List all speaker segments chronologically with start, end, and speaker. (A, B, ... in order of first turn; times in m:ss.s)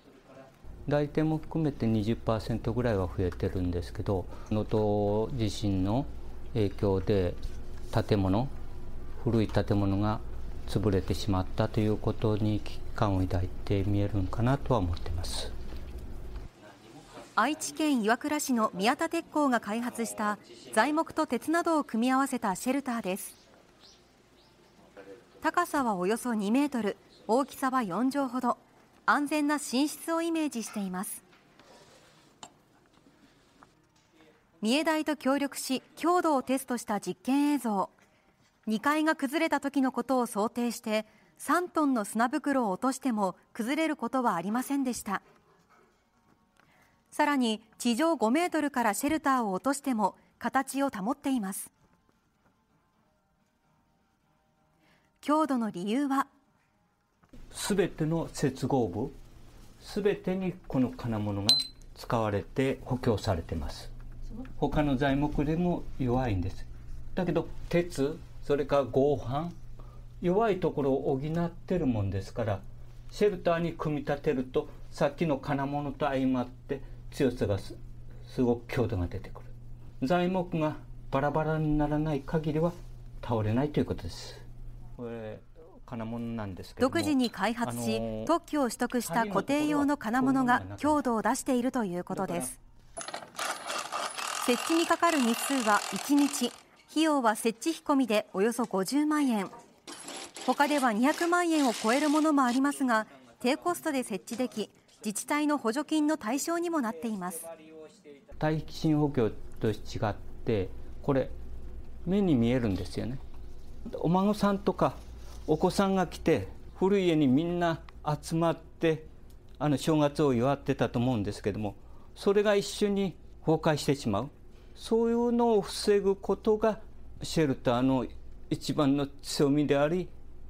0:00.9-0:07.4 A
0:07.9-0:08.5 A
0:09.2-0:15.6 A
0:17.3-0:23.4 B
0:25.4-0:31.2 B
0:34.6-0:37.9 B
0:38.7-0:45.2 B
0:47.1-0:51.7 B
0:55.2-0:56.3 B
0:57.5-0:59.2 A
0:59.8-1:03.9 A
1:04.6-1:09.6 A
1:10.2-1:24.4 A
1:25.0-1:28.3 A
1:26.8-1:32.6 B
1:29.0-1:31.0 A
1:32.1-1:32.5 A
1:34.4-1:39.5 B
1:40.4-1:47.5 B
1:48.1-1:51.3 A
1:52.0-1:53.2 A
1:53.9-1:59.1 A
1:59.6-2:10.1 A